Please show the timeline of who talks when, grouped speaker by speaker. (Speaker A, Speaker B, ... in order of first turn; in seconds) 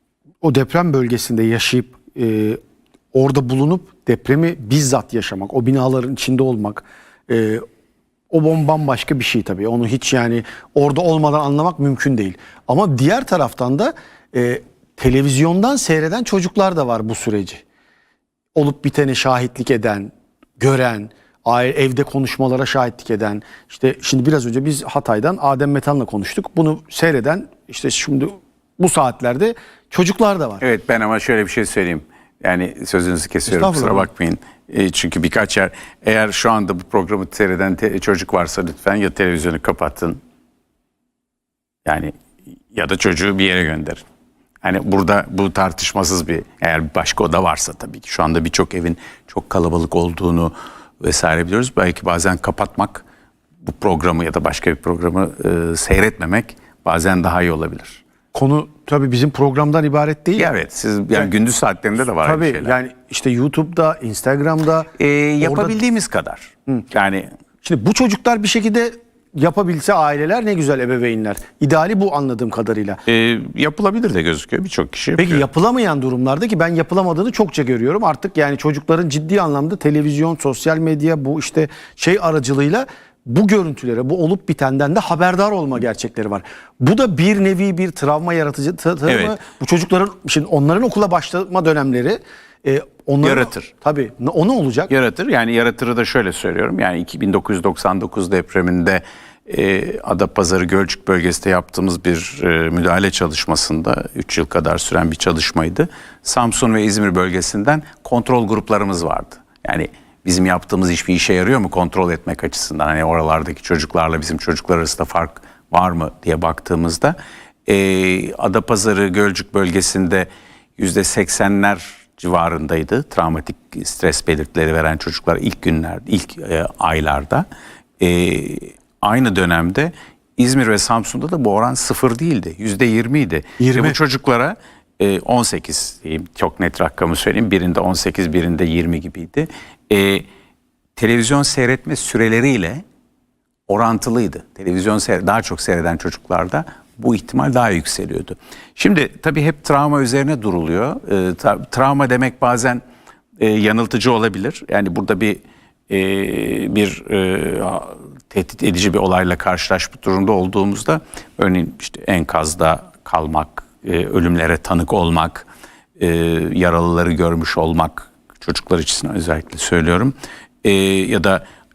Speaker A: 0.4-2.6, 3.1-7.6, 8.3-17.6, 18.6-30.6, 33.5-34.1, 58.3-60.5, 62.2-65.8, 67.6-73.0, 75.2-94.9, 133.6-134.0
Speaker B: 30.6-40.2, 41.9-42.1, 42.7-44.0, 44.6-53.0, 53.6-58.0, 60.4-62.7, 65.0-67.3, 73.1-75.4, 89.1-89.4, 93.2-93.7, 94.9-127.5, 128.0-140.3, 141.0-142.8, 143.7-152.8, 153.4-171.4